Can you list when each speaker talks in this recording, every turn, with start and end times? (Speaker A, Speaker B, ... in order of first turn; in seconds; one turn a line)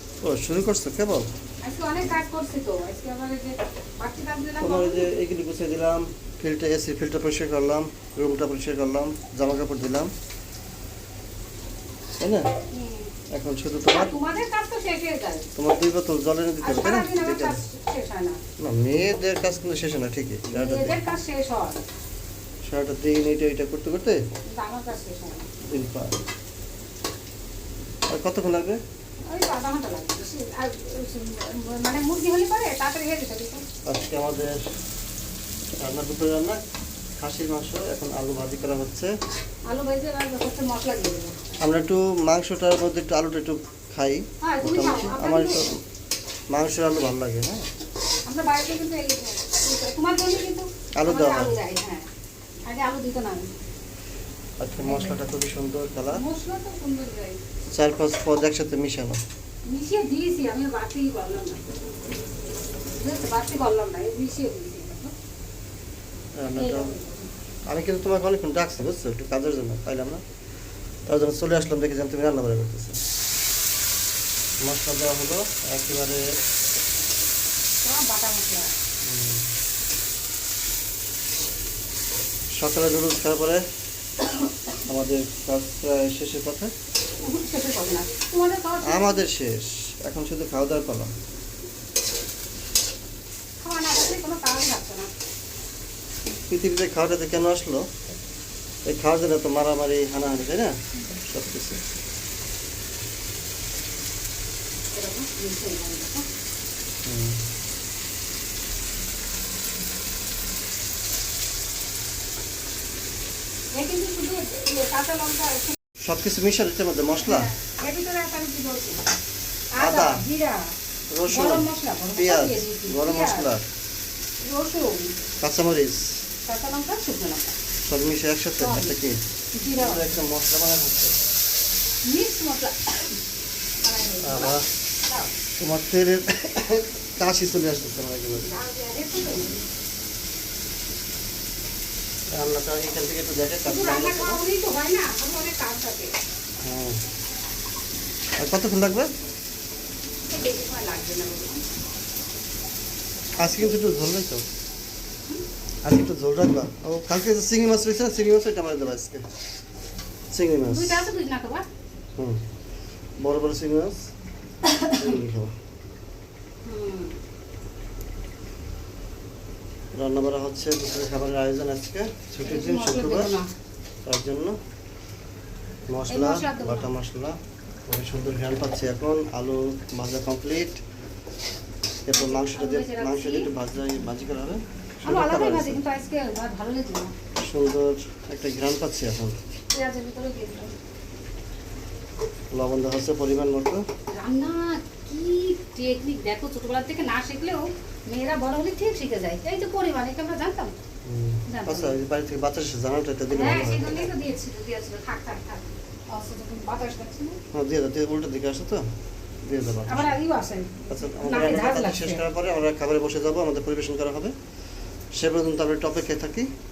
Speaker A: 0.2-1.3
Speaker B: 1.6-5.0
Speaker A: 4.6-10.1
Speaker A: 12.2-12.5
Speaker B: 12.7-13.1
Speaker A: 13.3-14.1
Speaker B: 13.9-15.5
Speaker A: 15.6-17.6
Speaker B: 16.6-18.4
Speaker A: 18.6-21.0
Speaker B: 20.5-21.8
Speaker A: 22.6-24.2
Speaker B: 24.4-25.5
Speaker A: 25.7-26.2
Speaker A: 28.1-28.8
Speaker B: 29.3-33.6
Speaker A: 33.9-34.6
Speaker A: 35.8-36.6
Speaker A: 37.2-39.1
Speaker B: 39.6-41.4
Speaker A: 41.6-45.8
Speaker B: 44.4-45.6
Speaker A: 46.5-47.6
Speaker B: 48.2-52.1
Speaker A: 51.0-51.5
Speaker B: 52.6-53.5
Speaker A: 54.6-56.2
Speaker B: 54.8-55.2
Speaker B: 56.1-57.4
Speaker A: 57.7-59.2
Speaker B: 59.6-61.8
Speaker B: 63.0-65.1
Speaker A: 66.4-66.9
Speaker B: 66.5-67.3
Speaker A: 67.7-70.2
Speaker A: 71.1-73.0
Speaker A: 74.6-76.2
Speaker B: 77.8-78.7
Speaker A: 79.0-79.5
Speaker A: 82.5-83.6
Speaker A: 84.8-86.7
Speaker B: 87.2-89.2
Speaker A: 88.8-91.1
Speaker B: 93.6-95.1
Speaker A: 96.5-97.9
Speaker A: 98.8-101.8
Speaker B: 104.9-106.2
Speaker A: 107.0-107.4
Speaker B: 113.7-115.8
Speaker A: 116.0-117.5
Speaker B: 117.2-119.1
Speaker B: 119.7-120.7
Speaker A: 119.8-120.2
Speaker A: 121.1-123.6
Speaker B: 121.3-123.5
Speaker B: 124.4-125.1
Speaker A: 125.4-126.2
Speaker B: 126.4-127.5
Speaker A: 127.8-129.2
Speaker B: 128.6-128.9
Speaker B: 129.5-130.1
Speaker A: 129.8-131.2
Speaker B: 132.0-133.2
Speaker B: 133.8-135.3
Speaker A: 134.2-134.7
Speaker A: 135.6-138.5
Speaker B: 138.4-139.6
Speaker A: 142.3-144.4
Speaker B: 143.6-146.2
Speaker A: 146.6-147.0
Speaker A: 148.4-149.1
Speaker B: 150.3-151.6
Speaker A: 153.4-154.4
Speaker A: 155.8-159.2
Speaker A: 160.3-161.1
Speaker B: 160.7-161.6
Speaker A: 163.2-164.1
Speaker B: 164.7-165.1
Speaker A: 164.9-165.5
Speaker B: 166.6-167.2
Speaker A: 169.9-173.3
Speaker B: 172.4-173.5
Speaker A: 174.1-174.6
Speaker A: 175.9-180.8
Speaker B: 176.1-176.9
Speaker A: 182.0-185.8
Speaker B: 182.1-183.5
Speaker B: 185.0-187.1
Speaker A: 187.4-189.4
Speaker B: 189.7-190.8
Speaker A: 192.5-193.8
Speaker B: 194.1-200.7
Speaker A: 201.0-204.1
Speaker B: 201.5-201.9
Speaker B: 203.3-207.4
Speaker A: 207.5-208.8
Speaker A: 209.4-210.2
Speaker B: 209.8-212.2
Speaker A: 210.9-214.3
Speaker A: 215.1-216.5